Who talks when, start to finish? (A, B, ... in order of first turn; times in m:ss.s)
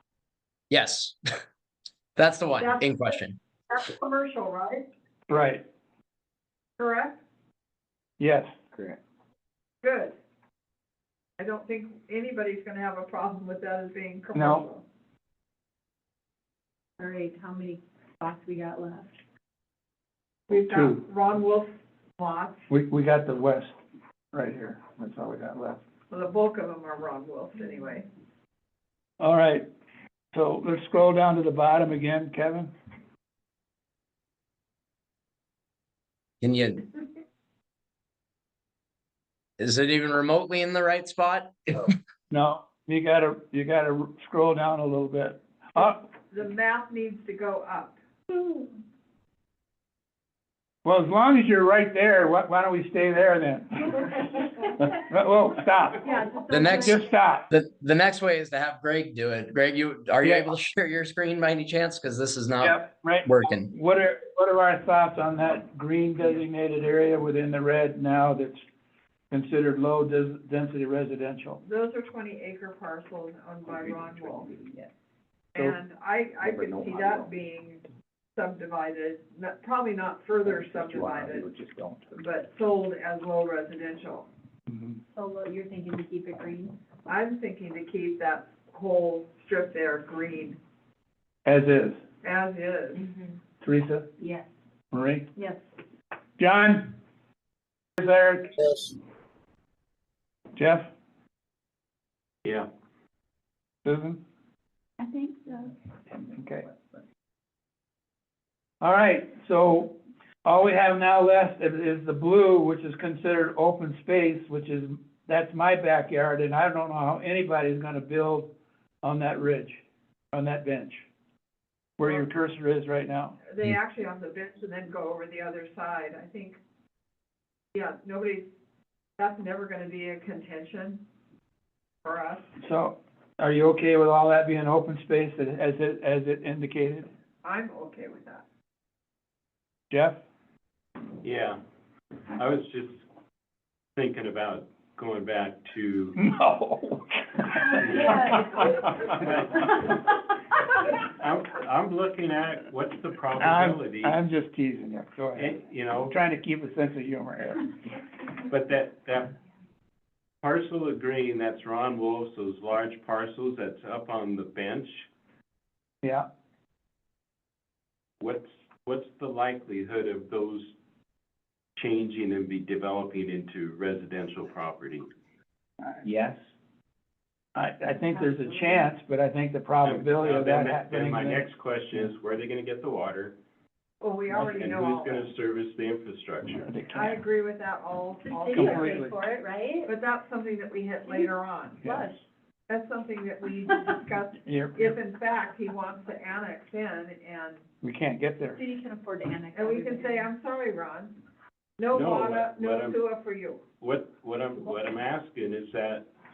0:00.7-0:01.4 A
0:02.2-0:03.4 A
0:02.6-0:04.8 B
0:05.3-0:05.6 C
0:06.8-0:07.2 B
0:08.2-0:08.6 C
0:09.8-0:10.2 B
0:11.4-0:14.8 B
0:14.3-0:14.6 C
0:17.0-0:19.1 D
0:20.5-0:22.6 B
0:20.5-0:21.0 C
0:22.7-0:23.8 C
0:24.3-0:25.8 C
0:26.1-0:28.1 B
0:29.2-0:29.7 C
0:30.3-0:32.7 C
0:36.4-0:36.8 A
0:39.6-0:42.0 A
0:42.3-0:46.0 C
0:45.8-0:48.0 B
0:50.8-0:56.1 C
0:56.0-0:57.1 D
0:56.5-1:03.7 A
0:56.8-0:57.5 C
1:00.2-1:00.5 C
1:02.6-1:08.6 C
1:09.3-1:11.6 C
1:11.6-1:14.5 B
1:13.6-1:14.9 E
1:15.5-1:17.8 B
1:16.4-1:17.3 E
1:18.4-1:21.4 B
1:20.4-1:22.2 E
1:22.1-1:24.3 B
1:24.7-1:25.0 C
1:25.1-1:26.7 D
1:27.1-1:30.6 B
1:31.4-1:32.0 C
1:32.2-1:33.1 B
1:33.0-1:33.3 D
1:33.6-1:34.1 C
1:34.2-1:34.5 D
1:34.9-1:35.3 C
1:35.4-1:35.6 D
1:36.4-1:37.0 C
1:38.0-1:38.6 C
1:40.6-1:40.9 C
1:43.8-1:44.2 C
1:45.0-1:45.7 D
1:46.3-1:46.7 C
1:48.8-2:01.0 C
2:02.0-2:03.4 C
2:03.5-2:06.6 B
2:07.7-2:08.5 B
2:09.2-2:11.0 B
2:12.0-2:12.5 B
2:12.6-2:17.1 C
2:17.4-2:18.4 B
2:19.9-2:20.2 C
2:21.2-2:21.6 F
2:22.4-2:23.0 F
2:24.0-2:26.2 F
2:26.2-2:28.6 C
2:27.8-2:29.9 F
2:27.8-2:28.2 D
2:31.0-2:34.2 F
2:33.4-2:37.7 C
2:35.4-2:36.1 F
2:38.4-2:39.3 F
2:40.4-2:45.1 F
2:46.0-2:46.3 C
2:48.2-2:50.7 F
2:51.8-2:55.1 F
2:56.0-2:56.4 E
2:57.5-3:01.5 C
2:57.9-2:58.9 D
2:59.8-3:03.4 F
3:04.0-3:05.3 B
3:04.4-3:06.7 F
3:06.6-3:07.2 C
3:06.9-3:09.0 B
3:08.3-3:09.9 D
3:08.5-3:09.2 C
3:09.8-3:12.0 B
3:11.8-3:12.1 C
3:11.8-3:12.2 D
3:12.7-3:17.6 B
3:14.4-3:15.0 C
3:17.8-3:18.6 C
3:18.5-3:20.3 D
3:19.5-3:21.1 B
3:21.8-3:23.6 B
3:21.9-3:23.0 F
3:23.8-3:26.0 F